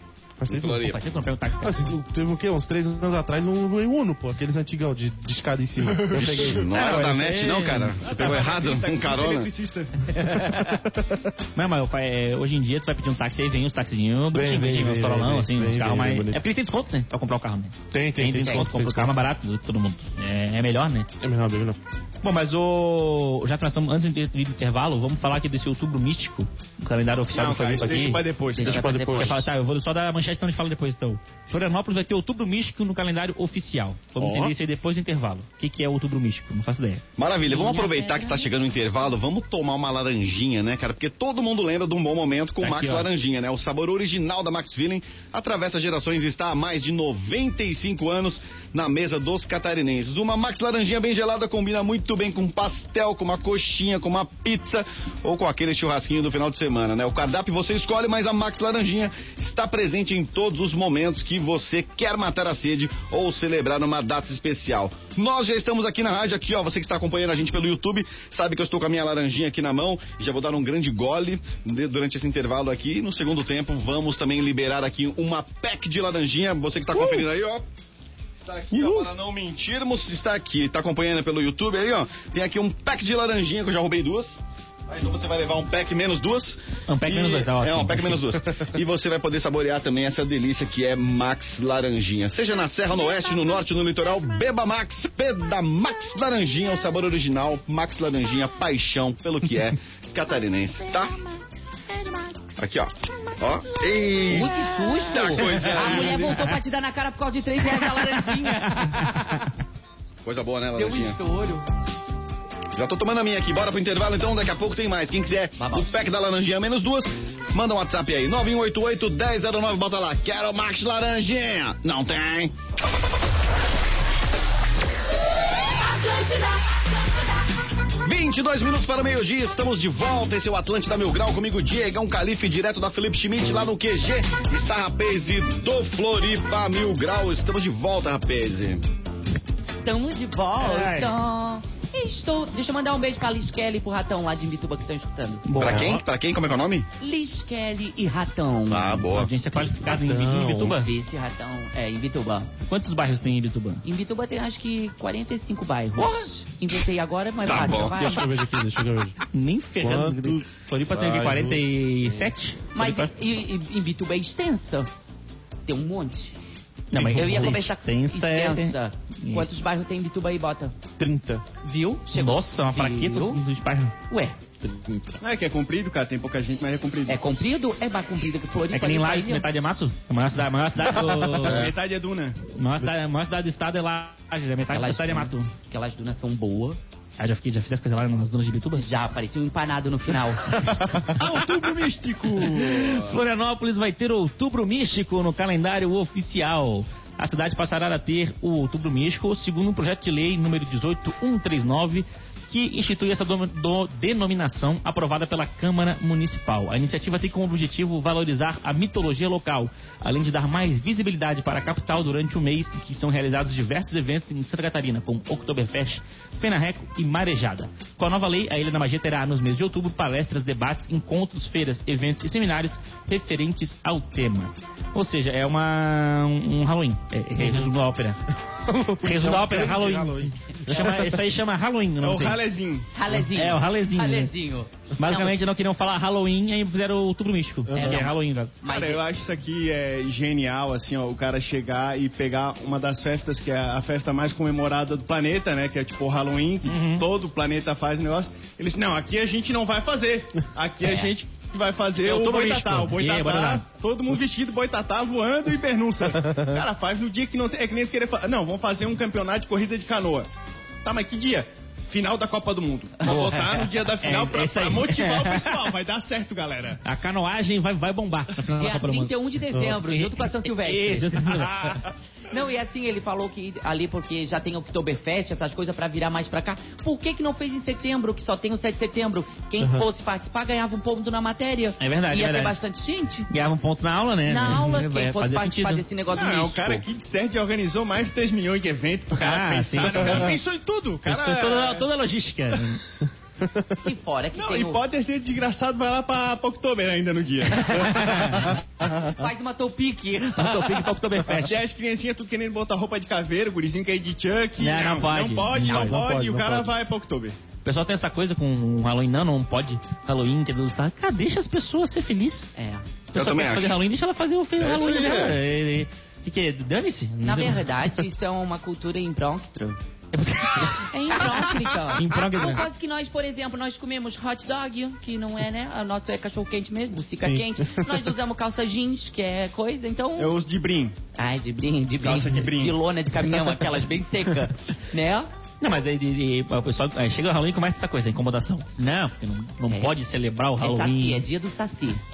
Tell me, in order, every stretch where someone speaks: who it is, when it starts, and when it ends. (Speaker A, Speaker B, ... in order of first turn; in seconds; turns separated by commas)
Speaker A: 0.4-0.9, Speaker B: 0.5-1.0, Speaker C: 0.7-2.0, Speaker A: 1.6-6.7, Speaker B: 6.1-9.5, Speaker C: 6.7-8.2, Speaker D: 8.1-10.2, Speaker A: 10.2-11.3, Speaker C: 11.6-21.1, Speaker A: 14.3-16.4, Speaker A: 17.9-19.1, Speaker E: 18.4-18.7, Speaker A: 21.2-21.8, Speaker C: 22.2-37.0, Speaker D: 27.3-28.9, Speaker A: 27.8-29.5, Speaker E: 28.6-29.4, Speaker A: 34.2-34.5, Speaker B: 37.2-77.7, Speaker E: 37.4-38.5, Speaker C: 42.6-43.1, Speaker B: 78.4-101.2, Speaker C: 86.9-88.4, Speaker E: 101.3-102.6, Speaker B: 102.6-106.5, Speaker E: 104.1-109.5, Speaker C: 104.4-106.6, Speaker C: 107.7-109.5, Speaker B: 110.2-111.2, Speaker E: 110.8-111.7, Speaker B: 112.8-122.5, Speaker E: 115.6-115.9, Speaker E: 125.8-127.3, Speaker B: 128.0-138.8, Speaker E: 139.7-145.5, Speaker C: 140.6-141.1, Speaker C: 145.5-146.0, Speaker B: 145.6-146.9, Speaker A: 145.6-146.0, Speaker E: 147.0-149.1, Speaker B: 148.7-149.3, Speaker C: 149.1-150.9, Speaker A: 149.8-150.8, Speaker E: 150.7-152.5, Speaker C: 152.7-153.8, Speaker E: 153.8-158.3, Speaker C: 156.0-156.3, Speaker B: 157.4-158.3, Speaker A: 157.6-159.2, Speaker C: 159.3-163.1, Speaker A: 159.8-162.3, Speaker E: 162.7-164.9, Speaker E: 165.7-166.3, Speaker C: 166.9-169.5, Speaker E: 166.9-170.8, Speaker A: 171.0-171.4, Speaker E: 171.6-173.4, Speaker C: 172.1-173.9, Speaker E: 174.1-174.4, Speaker A: 174.6-175.2, Speaker D: 175.2-177.2, Speaker E: 177.1-179.5, Speaker C: 178.7-181.7, Speaker D: 181.3-182.4, Speaker B: 181.4-181.7, Speaker C: 182.6-185.5, Speaker E: 184.7-186.8, Speaker C: 187.2-188.9, Speaker E: 188.8-190.7, Speaker D: 191.1-193.2, Speaker C: 192.4-228.2, Speaker A: 228.7-231.2, Speaker C: 229.0-232.4, Speaker D: 232.0-232.9, Speaker E: 232.9-235.3, Speaker C: 233.2-234.3, Speaker C: 235.0-238.6, Speaker A: 237.7-238.0, Speaker E: 237.7-239.0, Speaker D: 238.7-260.3, Speaker C: 246.7-247.1, Speaker E: 250.8-251.1, Speaker C: 252.0-253.6, Speaker D: 260.8-266.8, Speaker E: 263.0-263.6, Speaker C: 264.0-265.6, Speaker C: 266.8-271.9, Speaker E: 268.6-271.1, Speaker A: 269.5-269.8, Speaker E: 272.3-283.3, Speaker C: 281.8-282.6, Speaker C: 283.3-285.9, Speaker E: 284.3-286.8, Speaker D: 286.1-291.9, Speaker C: 289.1-290.4, Speaker C: 291.1-292.8, Speaker E: 293.8-294.8, Speaker D: 294.4-298.4, Speaker C: 297.6-298.6, Speaker E: 298.5-300.9, Speaker C: 300.3-301.6, Speaker D: 301.3-307.4, Speaker C: 304.6-306.1, Speaker A: 305.5-306.7, Speaker C: 307.6-312.5, Speaker E: 312.6-312.9, Speaker B: 313.1-313.8, Speaker C: 313.1-317.6, Speaker B: 314.6-315.4, Speaker E: 317.2-319.8, Speaker C: 320.1-322.7, Speaker E: 320.6-330.4, Speaker A: 327.2-328.0, Speaker D: 330.2-330.9, Speaker E: 331.2-335.3, Speaker D: 332.0-332.8, Speaker C: 335.6-341.2, Speaker E: 340.6-342.0